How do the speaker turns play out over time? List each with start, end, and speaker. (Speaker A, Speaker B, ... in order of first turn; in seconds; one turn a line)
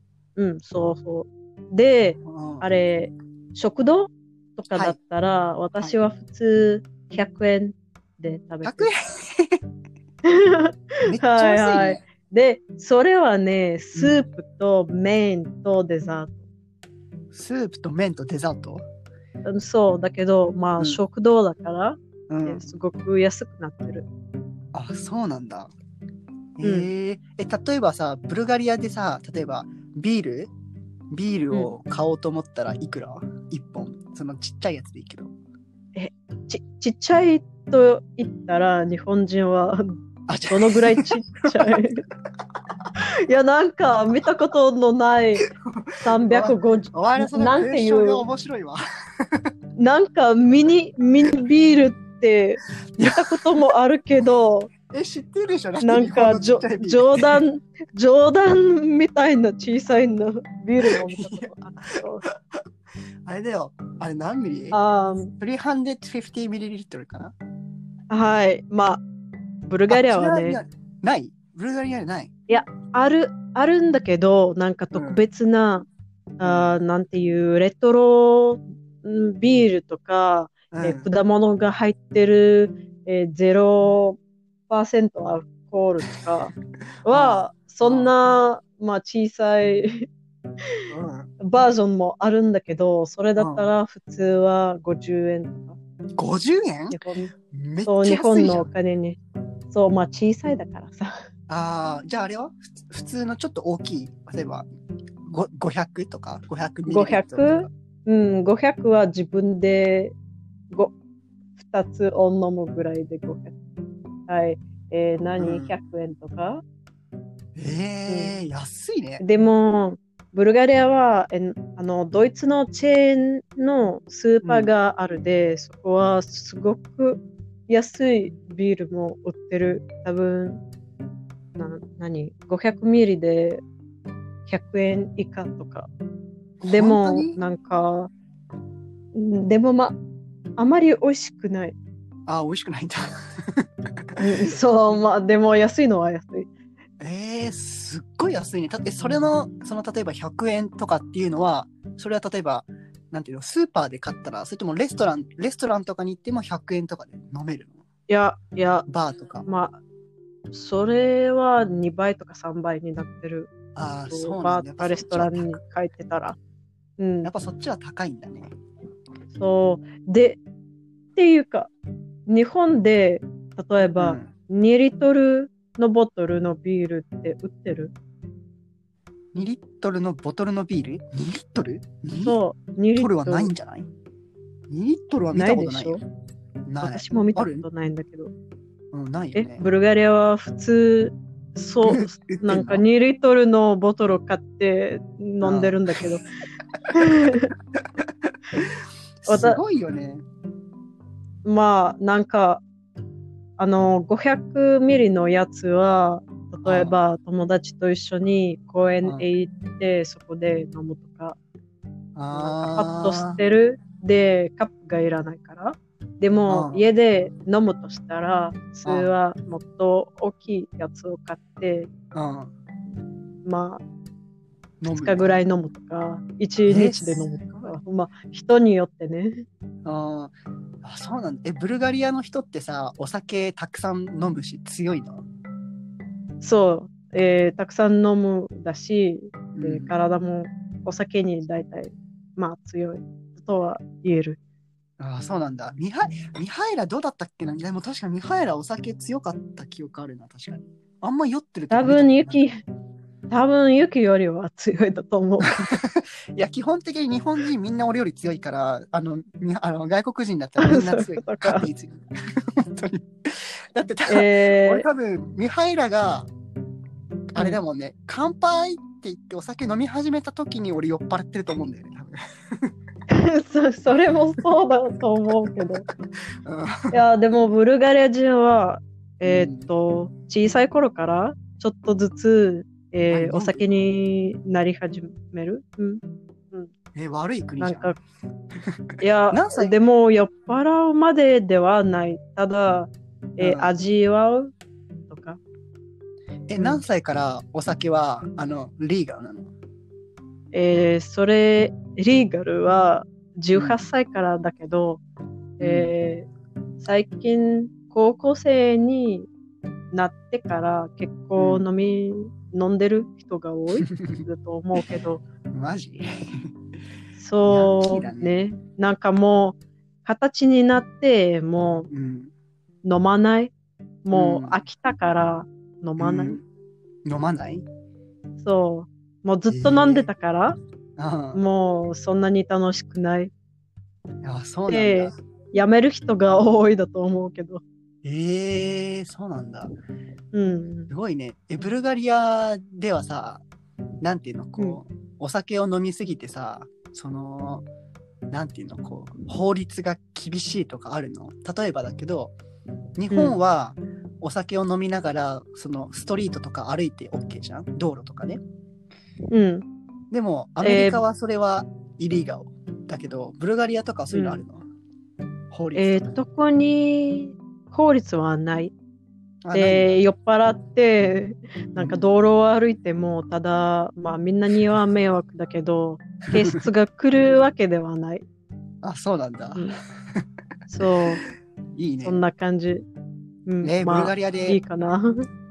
Speaker A: 0.4-8.9
Speaker B: 2.2-2.6
Speaker B: 8.6-9.6
Speaker A: 10.2-16.4
Speaker B: 11.0-12.0
Speaker B: 17.3-18.8
Speaker A: 19.4-24.1
Speaker B: 22.3-22.6
Speaker B: 24.7-25.7
Speaker B: 26.6-30.5
Speaker A: 26.6-26.9
Speaker B: 31.1-35.3
Speaker A: 35.9-40.0
Speaker B: 40.3-41.8
Speaker A: 40.5-42.0
Speaker A: 43.0-45.5
Speaker B: 45.5-49.5
Speaker A: 46.0-48.2
Speaker A: 49.8-54.7
Speaker B: 53.0-53.3
Speaker B: 54.9-57.4
Speaker A: 55.8-62.2
Speaker B: 60.8-62.6
Speaker B: 63.2-64.8
Speaker A: 64.7-65.3
Speaker B: 65.4-67.3
Speaker A: 68.1-69.0
Speaker A: 69.6-70.6
Speaker B: 69.9-72.3
Speaker A: 72.5-75.9
Speaker B: 74.9-75.2
Speaker A: 76.4-84.2
Speaker B: 76.4-76.7
Speaker B: 80.7-81.1
Speaker A: 84.7-86.5
Speaker A: 87.0-90.1
Speaker B: 87.1-88.1
Speaker B: 90.9-91.3
Speaker A: 91.4-95.8
Speaker B: 93.4-93.7
Speaker B: 96.2-97.0
Speaker A: 96.9-97.3
Speaker B: 97.5-98.7
Speaker A: 97.8-99.2
Speaker A: 99.7-101.2
Speaker B: 101.5-104.7
Speaker B: 105.2-107.7
Speaker A: 106.9-110.1
Speaker A: 111.6-113.5
Speaker A: 114.3-116.6
Speaker B: 115.4-115.7
Speaker B: 117.5-119.2
Speaker A: 118.1-118.3
Speaker A: 119.2-130.6
Speaker B: 124.4-124.7
Speaker A: 131.6-133.6
Speaker A: 134.5-135.9
Speaker B: 136.6-137.4
Speaker A: 136.6-138.1
Speaker A: 139.1-139.9
Speaker A: 140.6-141.8
Speaker B: 142.3-144.2
Speaker A: 144.2-146.5
Speaker B: 147.0-157.8
Speaker A: 158.1-158.8
Speaker B: 158.9-159.4
Speaker A: 159.4-159.8
Speaker A: 160.5-163.5
Speaker B: 163.7-165.6
Speaker A: 164.1-166.4
Speaker A: 167.0-167.3
Speaker B: 167.2-168.5
Speaker A: 169.3-170.4
Speaker A: 171.1-171.7
Speaker A: 172.3-177.9
Speaker B: 174.0-174.3
Speaker B: 179.3-182.4
Speaker A: 182.2-183.5
Speaker B: 182.9-183.9
Speaker B: 184.7-186.0
Speaker A: 185.3-186.0
Speaker B: 186.7-187.7
Speaker A: 186.8-188.3
Speaker B: 188.9-189.6
Speaker A: 189.3-196.2
Speaker B: 191.8-192.8
Speaker B: 195.4-196.0
Speaker A: 196.9-197.5
Speaker B: 197.8-200.2
Speaker A: 199.3-199.6
Speaker A: 201.4-202.6
Speaker A: 203.6-211.3
Speaker B: 206.6-206.9
Speaker B: 212.2-213.4
Speaker A: 212.3-221.9
Speaker B: 216.5-216.8
Speaker B: 218.8-219.1
Speaker B: 222.1-222.5
Speaker A: 223.4-223.8
Speaker B: 224.8-225.3
Speaker A: 224.9-229.4
Speaker B: 226.7-227.2
Speaker B: 229.8-235.2
Speaker A: 236.4-244.4
Speaker B: 239.5-239.9
Speaker B: 245.0-252.4
Speaker A: 251.7-252.6
Speaker A: 253.3-255.6
Speaker B: 255.5-266.3
Speaker A: 260.6-261.7
Speaker A: 264.1-264.9
Speaker B: 267.3-272.7
Speaker A: 273.1-275.9
Speaker B: 276.4-277.0
Speaker A: 276.9-286.0
Speaker B: 279.2-279.7
Speaker B: 283.1-283.6
Speaker B: 286.9-287.9
Speaker A: 287.6-288.0
Speaker A: 289.0-294.5
Speaker B: 289.3-289.7
Speaker B: 293.4-293.7
Speaker A: 295.1-295.4
Speaker B: 296.5-299.5
Speaker A: 300.5-305.0
Speaker B: 303.5-303.8
Speaker A: 305.6-306.3
Speaker B: 305.6-305.9
Speaker A: 306.8-309.3
Speaker A: 309.9-315.2
Speaker B: 311.4-311.6
Speaker B: 313.9-314.2
Speaker B: 315.5-316.5
Speaker A: 317.1-321.9
Speaker B: 317.4-318.4
Speaker B: 321.9-322.3
Speaker A: 322.8-323.5
Speaker A: 324.0-326.4
Speaker B: 324.1-324.6
Speaker B: 326.0-326.4
Speaker B: 327.0-327.6
Speaker A: 328.4-330.6
Speaker B: 329.5-330.1
Speaker B: 331.0-331.4
Speaker A: 331.3-333.3
Speaker B: 334.2-335.1
Speaker A: 334.7-337.6
Speaker B: 338.0-339.7
Speaker A: 340.3-340.9
Speaker B: 340.9-343.4
Speaker B: 344.0-347.6
Speaker B: 348.3-352.3
Speaker B: 353.0-358.4
Speaker A: 353.1-353.4
Speaker A: 359.3-359.6
Speaker B: 360.1-364.6
Speaker A: 360.6-361.0
Speaker A: 364.1-364.4
Speaker B: 365.5-366.1
Speaker A: 365.7-368.7
Speaker B: 369.4-369.9
Speaker A: 369.5-378.2
Speaker B: 371.8-372.0
Speaker B: 378.8-380.2
Speaker A: 380.7-381.2
Speaker B: 381.7-382.2
Speaker A: 382.0-382.8
Speaker A: 383.4-385.2
Speaker B: 383.6-384.6